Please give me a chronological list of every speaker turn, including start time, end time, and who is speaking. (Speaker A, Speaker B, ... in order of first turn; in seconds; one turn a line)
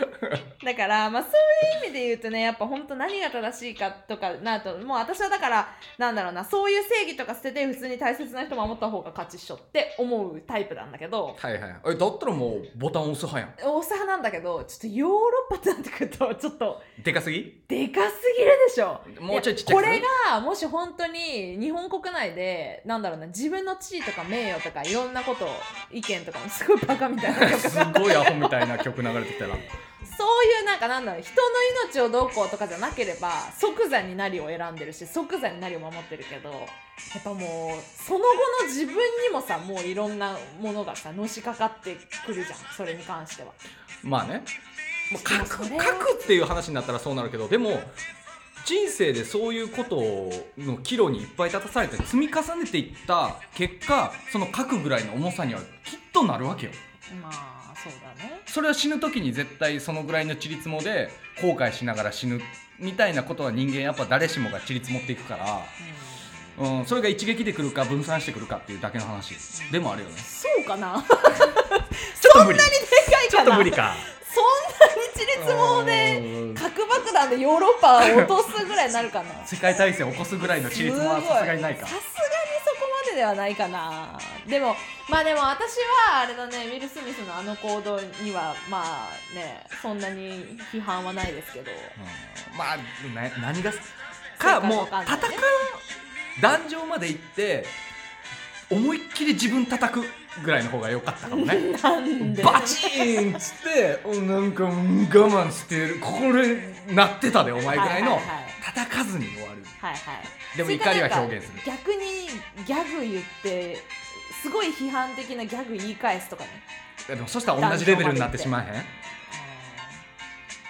Speaker A: 0.6-11.4
Speaker B: 11.4-13.5
Speaker A: 13.6-16.9
Speaker B: 17.0-17.6
Speaker A: 17.7-28.8
Speaker B: 19.1-20.1
Speaker B: 27.2-29.6
Speaker A: 30.0-43.6
Speaker B: 44.0-44.5
Speaker B: 45.1-47.9
Speaker A: 45.2-46.2
Speaker B: 48.6-56.8
Speaker A: 57.1-58.5
Speaker B: 58.5-65.7
Speaker A: 65.8-66.6
Speaker B: 66.6-70.3
Speaker A: 69.5-79.7
Speaker B: 72.2-74.1
Speaker B: 75.3-76.6
Speaker B: 78.0-78.3
Speaker B: 79.4-82.0
Speaker A: 80.7-92.0
Speaker B: 92.0-95.7
Speaker A: 94.4-95.8
Speaker B: 96.3-97.7
Speaker B: 98.7-101.7
Speaker A: 101.3-103.4
Speaker B: 102.2-109.8
Speaker A: 107.7-108.6
Speaker A: 109.8-116.6
Speaker B: 110.5-111.6
Speaker B: 117.1-118.9
Speaker A: 117.5-118.5
Speaker A: 119.3-120.0